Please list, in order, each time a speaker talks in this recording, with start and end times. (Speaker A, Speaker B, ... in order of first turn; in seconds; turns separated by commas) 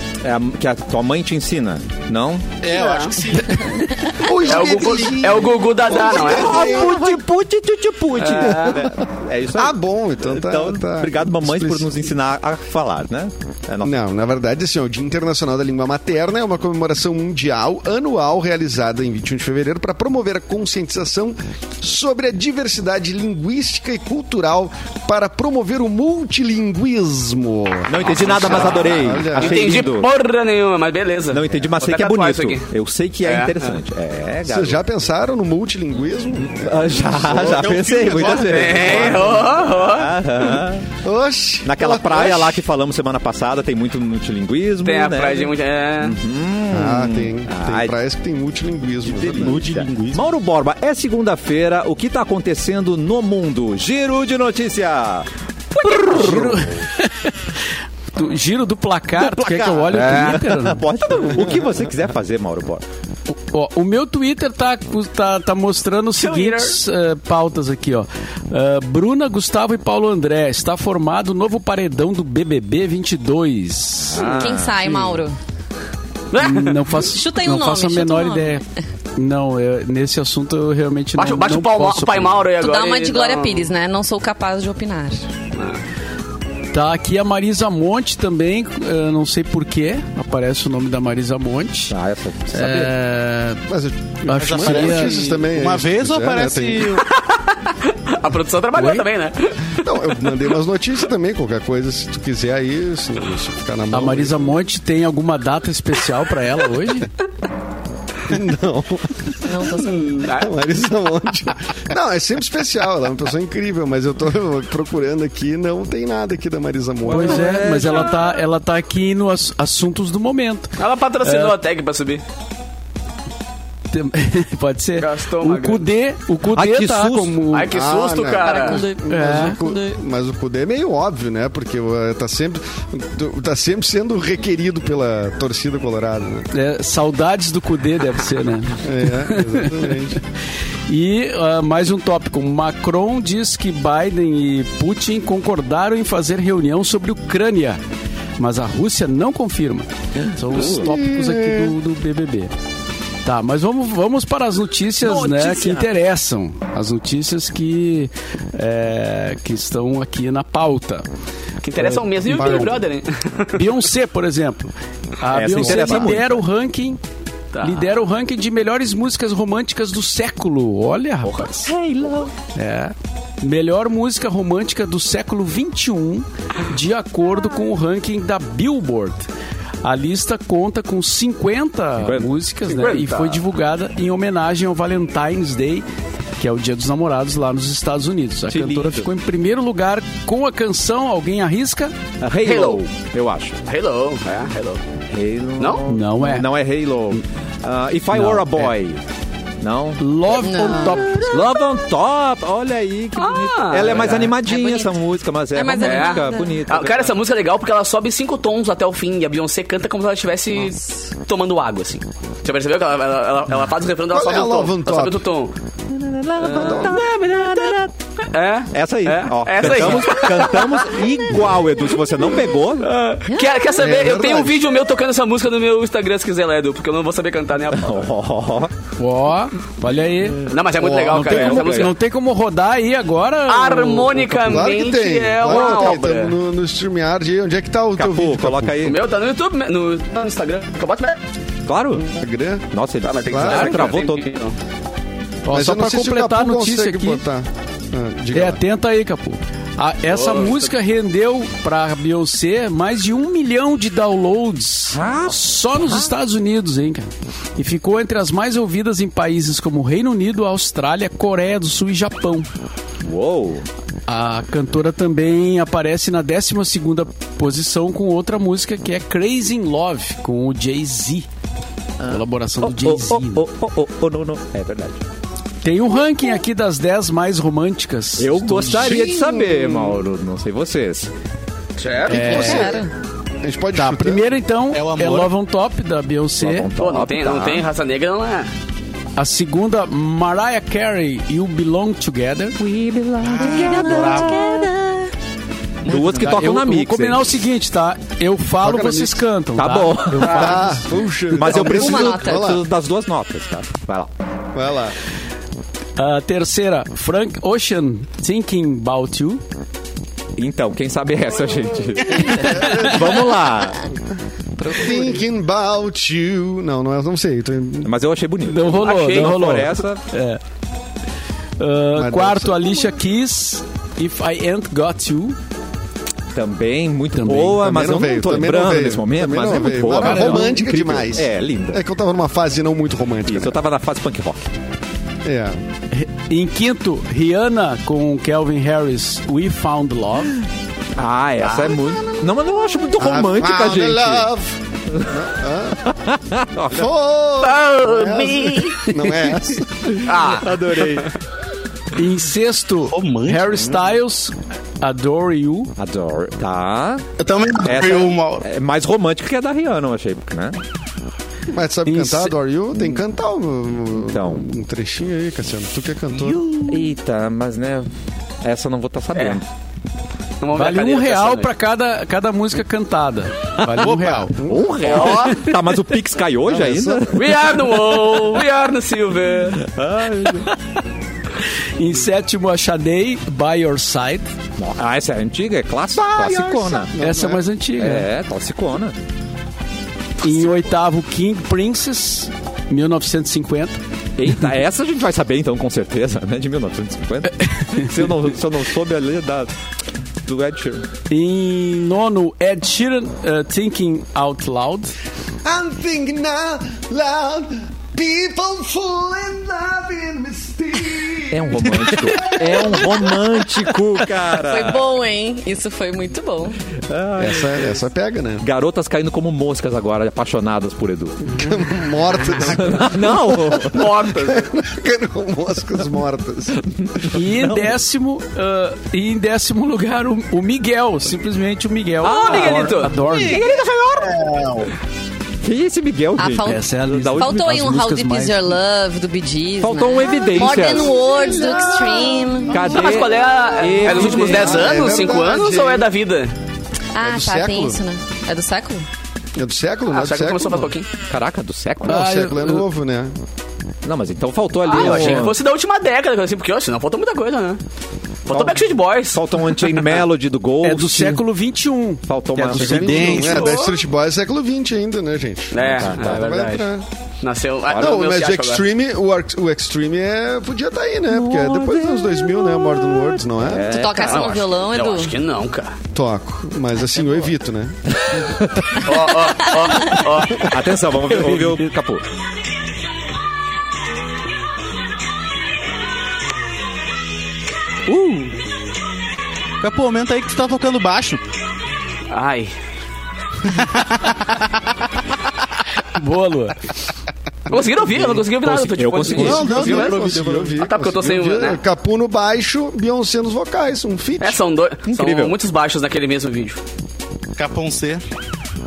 Speaker A: 0.2-2.5, Speaker B: 2.6-3.9, Speaker C: 2.7-3.2, Speaker D: 4.1-7.2, Speaker C: 4.4-6.9, Speaker A: 5.9-13.9, Speaker C: 8.2-8.9, Speaker D: 8.3-9.0, Speaker D: 9.5-12.0, Speaker D: 13.8-29.8, Speaker A: 27.9-30.1, Speaker C: 28.4-32.7, Speaker A: 31.3-34.8, Speaker C: 33.2-33.8, Speaker D: 34.5-37.9, Speaker A: 36.5-40.9, Speaker B: 37.3-39.0, Speaker C: 38.3-40.2, Speaker D: 39.0-39.3, Speaker D: 41.0-42.6, Speaker A: 41.6-47.9, Speaker C: 44.8-46.2, Speaker D: 46.7-49.7, Speaker A: 49.1-55.3, Speaker B: 49.3-50.2, Speaker C: 55.7-56.4, Speaker E: 55.8-60.8, Speaker A: 56.1-56.6, Speaker A: 59.2-62.8, Speaker C: 60.0-60.3, Speaker E: 63.3-74.2, Speaker C: 66.2-66.8, Speaker A: 74.0-74.8, Speaker C: 74.1-74.5, Speaker F: 74.2-75.3, Speaker C: 76.3-76.9, Speaker E: 76.4-78.6, Speaker F: 76.9-78.6, Speaker E: 79.1-82.5, Speaker C: 81.2-83.7, Speaker F: 82.6-85.2, Speaker C: 85.5-85.8, Speaker E: 86.7-91.9, Speaker A: 91.9-92.9, Speaker E: 92.5-93.6, Speaker D: 93.7-97.0, Speaker E: 94.3-95.3, Speaker B: 94.4-97.0, Speaker C: 97.0-100.3, Speaker E: 98.7-99.1, Speaker D: 99.8-104.5, Speaker E: 103.9-107.1, Speaker D: 108.3-109.3, Speaker F: 109.4-110.2, Speaker C: 109.8-110.5, Speaker D: 110.4-117.7, Speaker E: 117.1-121.5, Speaker C: 120.8-122.2, Speaker E: 123.9-127.7, Speaker C: 125.0-125.9, Speaker A: 126.5-127.4, Speaker C: 127.5-128.8, Speaker D: 127.7-136.5, Speaker F: 128.3-130.0, Speaker E: 129.1-129.6, Speaker E: 136.5-139.9, Speaker D: 138.8-140.2, Speaker E: 140.9-147.8, Speaker E: 148.4-152.5, Speaker A: 150.5-150.9, Speaker D: 150.7-151.7, Speaker E: 153.2-161.1, Speaker C: 155.0-155.8, Speaker C: 161.6-163.6, Speaker E: 161.8-162.7, Speaker D: 162.2-162.7, Speaker E: 163.5-167.0, Speaker A: 165.3-166.4, Speaker C: 167.5-167.9, Speaker E: 167.6-171.7, Speaker A: 171.6-172.3, Speaker E: 172.5-179.3, Speaker E: 179.8-185.8, Speaker A: 182.0-182.3, Speaker C: 182.7-183.4, Speaker E: 186.4-191.9, Speaker A: 188.5-189.1, Speaker A: 192.2-193.6, Speaker C: 192.4-192.8, Speaker C: 193.6-194.8, Speaker A: 195.1-199.0, Speaker C: 195.6-195.8, Speaker E: 195.9-196.5, Speaker E: 198.1-198.7, Speaker A: 199.6-200.4, Speaker E: 200.0-201.3, Speaker F: 200.4-201.3, Speaker A: 201.2-207.1, Speaker C: 203.2-204.3, Speaker F: 203.9-204.9, Speaker F: 205.5-206.6, Speaker C: 205.8-215.5, Speaker D: 214.1-215.2, Speaker A: 215.9-217.9, Speaker C: 216.4-217.8, Speaker D: 216.5-216.9, Speaker C: 218.3-221.0, Speaker A: 218.7-222.9, Speaker C: 222.8-228.1, Speaker F: 223.3-223.7, Speaker D: 223.8-224.6, Speaker A: 227.7-228.7, Speaker E: 229.0-234.6, Speaker C: 230.5-231.9, Speaker A: 230.8-231.9, Speaker C: 233.5-236.3, Speaker D: 234.4-238.8, Speaker A: 238.0-239.0, Speaker C: 238.8-241.2, Speaker A: 241.7-242.1, Speaker D: 242.0-242.7, Speaker A: 242.7-244.2, Speaker C: 243.0-244.6, Speaker D: 243.3-243.8, Speaker E: 245.4-247.2, Speaker D: 245.5-248.6, Speaker E: 248.3-262.5, Speaker C: 250.1-250.7, Speaker A: 254.9-256.1, Speaker A: 263.0-263.6, Speaker E: 264.1-271.3, Speaker A: 272.0-275.0, Speaker E: 272.1-273.4, Speaker E: 275.6-279.1, Speaker A: 278.2-281.1, Speaker D: 278.7-280.0, Speaker C: 281.8-282.5, Speaker E: 282.1-282.8, Speaker D: 282.1-282.9, Speaker F: 282.1-282.9, Speaker D: 283.4-284.2, Speaker E: 283.7-286.7, Speaker B: 284.7-285.3, Speaker A: 286.4-287.6, Speaker C: 286.8-288.5, Speaker E: 289.2-292.6, Speaker A: 292.6-294.3, Speaker B: 293.2-294.4, Speaker F: 293.4-295.1, Speaker A: 295.9-297.3, Speaker B: 295.9-296.2, Speaker E: 295.9-301.0, Speaker D: 298.6-299.2, Speaker A: 299.6-300.6, Speaker D: 300.2-302.6, Speaker A: 301.3-304.1, Speaker F: 301.6-302.5, Speaker D: 304.5-304.9, Speaker E: 306.0-309.4, Speaker A: 310.4-313.8, Speaker D: 312.0-313.3, Speaker D: 314.6-317.9, Speaker F: 314.7-314.9, Speaker A: 317.8-320.0, Speaker E: 318.4-320.4, Speaker C: 318.8-319.4, Speaker E: 321.6-325.4, Speaker D: 321.9-322.9, Speaker A: 326.3-331.8, Speaker E: 327.1-327.7, Speaker D: 327.6-333.6, Speaker E: 329.9-330.5, Speaker A: 333.3-334.4, Speaker D: 335.2-335.6, Speaker E: 335.9-340.4, Speaker A: 340.9-344.3, Speaker D: 343.0-345.9, Speaker A: 344.9-345.2, Speaker A: 345.8-346.9, Speaker D: 346.7-350.1, Speaker C: 347.4-348.9, Speaker A: 350.0-351.1, Speaker C: 350.0-350.8, Speaker E: 351.9-355.7, Speaker B: 352.9-353.6, Speaker A: 355.8-357.1, Speaker B: 357.2-358.4, Speaker A: 357.6-360.6, Speaker D: 361.5-366.4, Speaker E: 361.9-362.3, Speaker A: 364.1-364.5, Speaker A: 366.6-367.9, Speaker A: 368.4-369.4, Speaker C: 369.1-369.4, Speaker C: 370.4-371.5, Speaker E: 370.5-374.4, Speaker A: 373.6-377.2, Speaker D: 374.3-375.0, Speaker C: 374.8-375.5, Speaker D: 376.4-377.2, Speaker C: 377.1-379.6, Speaker A: 379.6-380.5, Speaker E: 381.8-384.3, Speaker A: 384.6-386.9, Speaker D: 385.9-387.4, Speaker E: 387.0-388.1, Speaker A: 387.8-388.9, Speaker E: 390.2-393.8, Speaker A: 394.2-399.5, Speaker E: 397.6-397.9, Speaker A: 400.2-400.9, Speaker E: 401.1-404.9, Speaker D: 405.4-413.1, Speaker A: 411.3-414.9, Speaker F: 414.4-416.6, Speaker A: 416.9-417.8, Speaker D: 417.2-418.4, Speaker A: 418.4-421.4, Speaker D: 421.3-426.6, Speaker A: 422.3-423.9, Speaker C: 423.6-424.5, Speaker A: 426.8-427.7, Speaker E: 427.1-433.4, Speaker C: 432.0-434.2, Speaker B: 433.0-434.7, Speaker A: 435.4-437.7, Speaker F: 436.2-442.8, Speaker E: 436.4-438.6, Speaker A: 439.6-441.1, Speaker B: 441.1-441.9, Speaker A: 442.5-444.9, Speaker C: 442.5-446.3, Speaker D: 443.9-445.9, Speaker F: 446.9-448.8, Speaker D: 447.0-447.8, Speaker D: 449.4-450.7, Speaker C: 449.9-450.9, Speaker A: 451.1-452.1, Speaker E: 451.9-452.6, Speaker D: 451.9-453.1, Speaker A: 453.8-455.3, Speaker C: 454.6-457.6, Speaker E: 454.8-455.3, Speaker C: 458.2-459.9, Speaker A: 458.3-461.2, Speaker E: 460.6-463.5, Speaker A: 462.1-463.2, Speaker D: 462.5-466.8, Speaker B: 462.9-463.4, Speaker C: 463.3-463.8, Speaker C: 465.5-468.6, Speaker A: 465.6-466.2, Speaker A: 467.7-467.9, Speaker D: 467.7-473.7, Speaker A: 471.1-474.4, Speaker F: 473.7-475.1, Speaker C: 474.0-475.7, Speaker D: 475.9-477.8, Speaker A: 478.1-478.9, Speaker C: 478.8-480.5, Speaker A: 480.4-482.0, Speaker E: 487.9-488.3, Speaker B: 489.6-491.2, Speaker C: 492.1-492.5, Speaker B: 493.5-494.4, Speaker E: 495.8-496.7, Speaker C: 497.5-501.6, Speaker A: 498.3-499.8, Speaker D: 499.1-504.4, Speaker B: 499.2-500.5, Speaker C: 504.2-506.6, Speaker A: 504.9-505.3, Speaker B: 507.4-508.0